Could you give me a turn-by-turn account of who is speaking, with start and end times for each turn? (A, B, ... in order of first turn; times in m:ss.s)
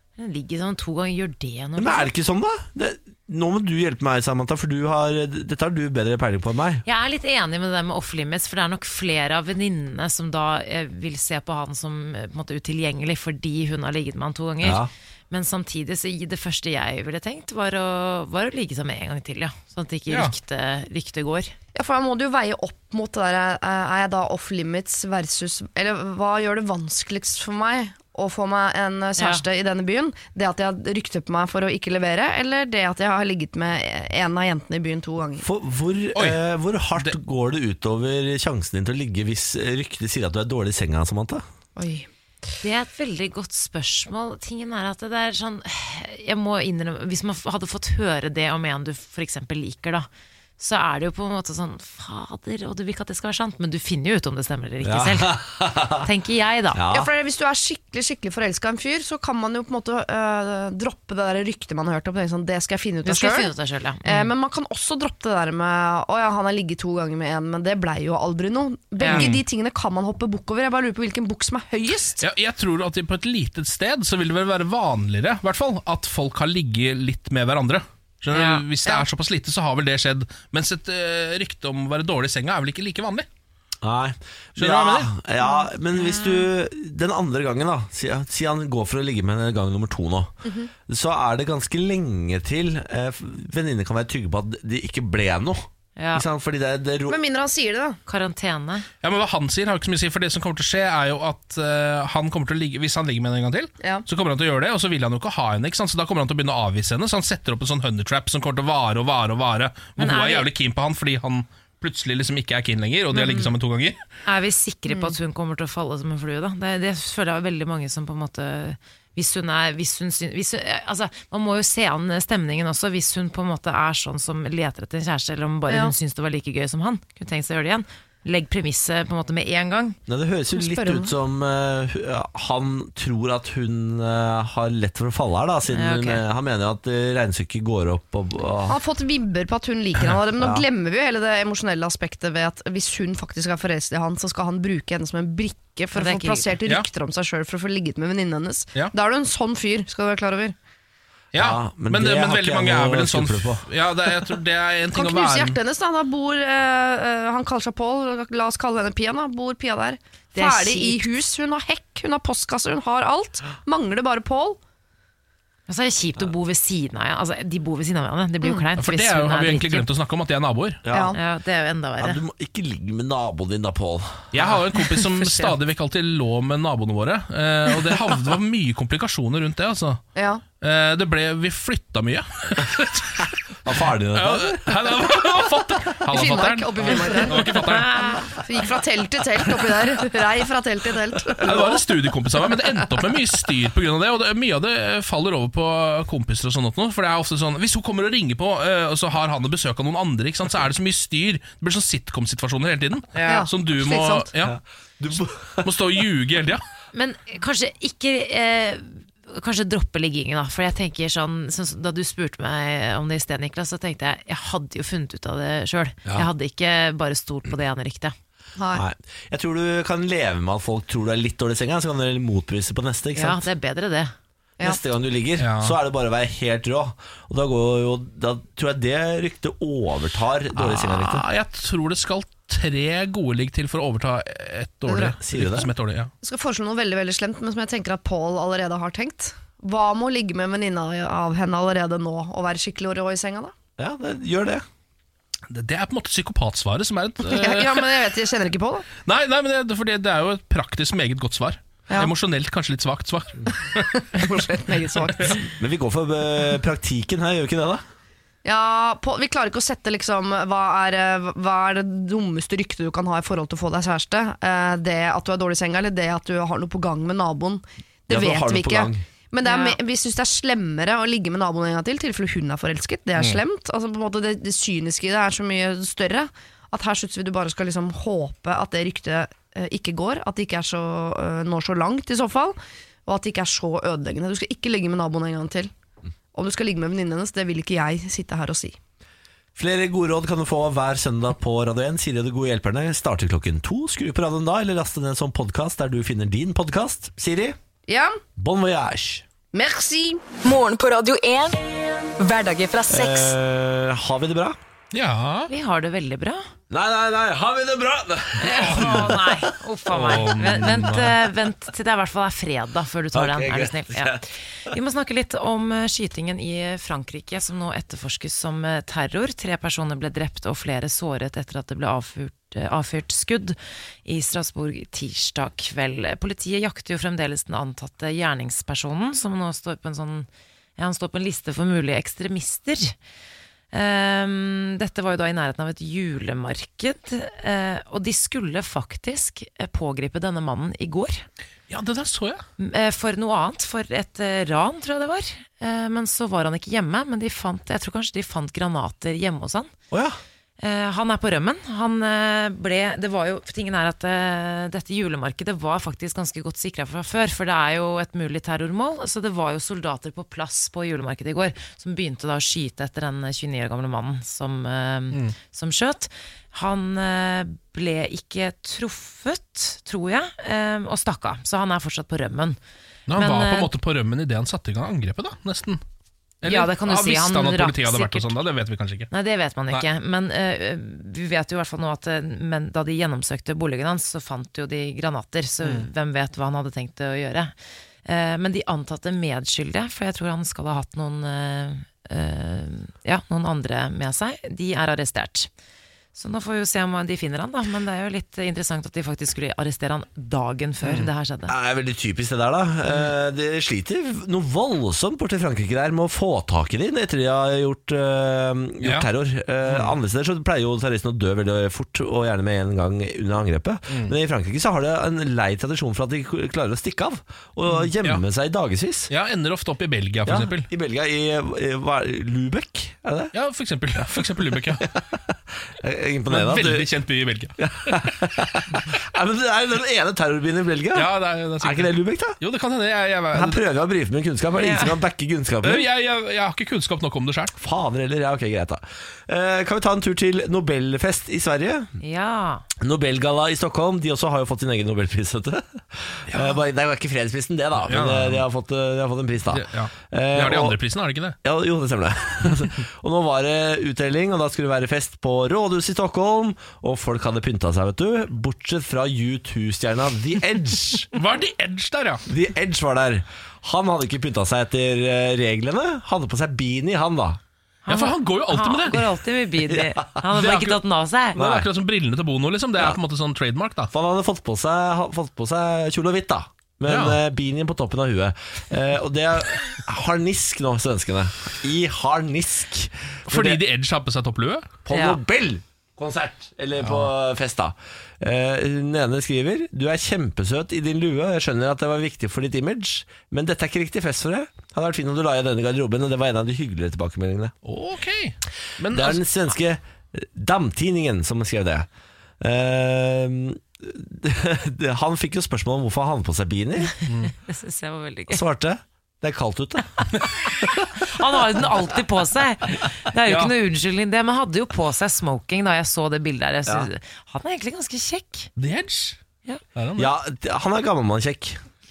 0:00.2-0:02.1 A
0:01.8-0:06.8 B
0:06.8-0:21.5 A
0:14.6-0:14.9 B
0:21.8-0:35.4 C
0:29.2-0:29.4 A
0:35.4-0:41.4 B
0:41.8-0:42.1 C
0:42.6-0:50.1 A
0:50.6-0:56.8 A
0:54.8-0:56.1 B
0:56.7-0:57.1 B
0:56.9-1:03.5 C
1:03.0-1:04.3 A
1:04.0-1:12.2 C
1:09.0-1:09.4 A
1:09.1-1:09.4 D
1:12.2-1:23.3 D
1:18.3-1:18.6 A
1:23.8-1:30.3 B
1:24.6-1:25.1 D
1:25.9-1:26.5 A
1:30.4-1:30.7 C
1:30.9-1:37.2 B
1:36.0-1:36.2 A
1:37.1-1:38.0 C
1:38.1-1:38.9 A
1:39.0-1:54.0 D
1:50.0-1:50.5 A
1:53.1-1:53.5 A
1:54.2-2:10.0 A
1:54.9-1:55.2 C
2:05.7-2:05.9 C
2:10.1-2:18.8 B
2:10.6-2:11.1 C
2:15.7-2:16.2 A
2:18.7-2:30.6 C
2:20.4-2:20.6 B
2:25.9-2:26.5 A
2:31.3-2:35.6 D
2:31.3-2:33.7 B
2:34.9-2:44.6 C
2:40.4-2:41.1 A
2:45.7-2:49.9 A
2:48.8-2:50.8 D
2:50.9-2:51.2 B
2:50.9-2:51.2 C
2:51.1-2:52.2 A
2:52.0-2:54.3 B
2:54.3-3:00.0 D
3:00.2-3:00.4 C
3:00.6-3:03.3 D
3:03.6-3:05.1 B
3:04.1-3:08.0 D
3:06.1-3:11.8 C
3:07.7-3:08.2 A
3:11.4-3:24.6 D
3:23.2-3:23.4 A
3:23.2-3:24.3 C
3:24.4-3:26.0 B
3:25.6-3:26.6 D
3:26.9-3:38.1 A
3:38.6-3:38.8 C
3:38.7-3:43.4 B
3:43.2-3:44.1 A
3:44.6-3:51.2 B
3:45.4-3:45.8 D
3:50.6-3:56.1 D
3:54.9-3:55.1 C
3:55.2-3:55.7 B
3:56.2-4:03.5 C
4:03.8-4:04.6 B
4:05.5-4:07.9 D
4:07.2-4:08.8 C
4:09.1-4:13.9 D
4:14.0-4:15.5 C
4:15.6-4:17.8 B
4:18.4-4:45.7 C
4:28.1-4:29.0 B
4:29.4-4:29.8 A
4:46.3-4:48.8 C
4:49.6-4:57.6 B
4:57.9-4:58.2 C
4:58.4-4:59.2 B
4:59.5-5:00.2 C
5:00.4-5:01.6 E
5:02.2-5:03.3 E
5:02.9-5:04.6 B
5:04.9-5:05.5 D
5:05.5-5:06.5 A
5:06.7-5:09.5 B
5:08.4-5:33.0 A
5:08.6-5:09.1 D
5:09.9-5:11.2 D
5:10.0-5:10.9 B
5:13.1-5:14.2 B
5:33.7-5:41.3 A
5:41.7-5:42.4 D
5:42.6-5:49.7 A
5:49.9-5:50.2 B
5:50.6-6:12.6 A
6:13.1-6:15.8 D
6:13.2-6:13.7 A
6:16.4-6:19.1 D
6:16.4-6:18.3 A
6:19.1-6:27.5 A
6:28.0-6:35.5 A
6:36.2-6:41.5 A
6:41.5-6:59.1 B
6:48.8-6:49.1 D
6:49.7-6:50.0 D
6:53.9-6:54.2 D
6:59.1-7:00.7 D
7:00.3-7:03.3 B
7:03.3-7:04.9 D
7:04.8-7:05.2 B
7:05.8-7:06.9 B
7:06.3-7:08.1 D
7:07.6-7:11.1 B
7:10.9-7:13.6 D
7:11.6-7:12.4 B
7:13.3-7:15.9 B
7:14.6-7:15.0 A
7:15.6-7:17.6 D
7:17.6-7:21.9 B
7:22.0-7:22.7 A
7:22.8-7:30.8 B
7:26.3-7:26.6 D
7:27.8-7:28.4 D
7:29.5-7:31.4 D
7:31.4-7:41.1 B
7:41.1-7:42.2 D
7:42.3-7:47.4 B
7:47.9-7:51.4 A
7:47.9-7:49.0 D
7:49.7-7:50.0 B
7:50.3-7:50.8 D
7:51.3-7:53.9 D
7:51.4-7:51.7 B
7:53.9-8:03.6 B
7:56.9-7:57.2 D
8:03.3-8:04.7 D
8:04.8-8:17.5 B
8:04.9-8:05.2 A
8:06.8-8:07.1 D
8:17.6-8:19.2 D
8:18.9-8:21.9 B
8:22.4-8:26.9 B
8:27.1-8:27.3 D
8:27.1-8:28.4 A
8:28.3-8:30.8 B
8:30.8-8:38.5 A
8:33.2-8:33.5 D
8:38.6-8:39.2 D
8:39.8-8:40.1 D
8:40.0-8:41.6 B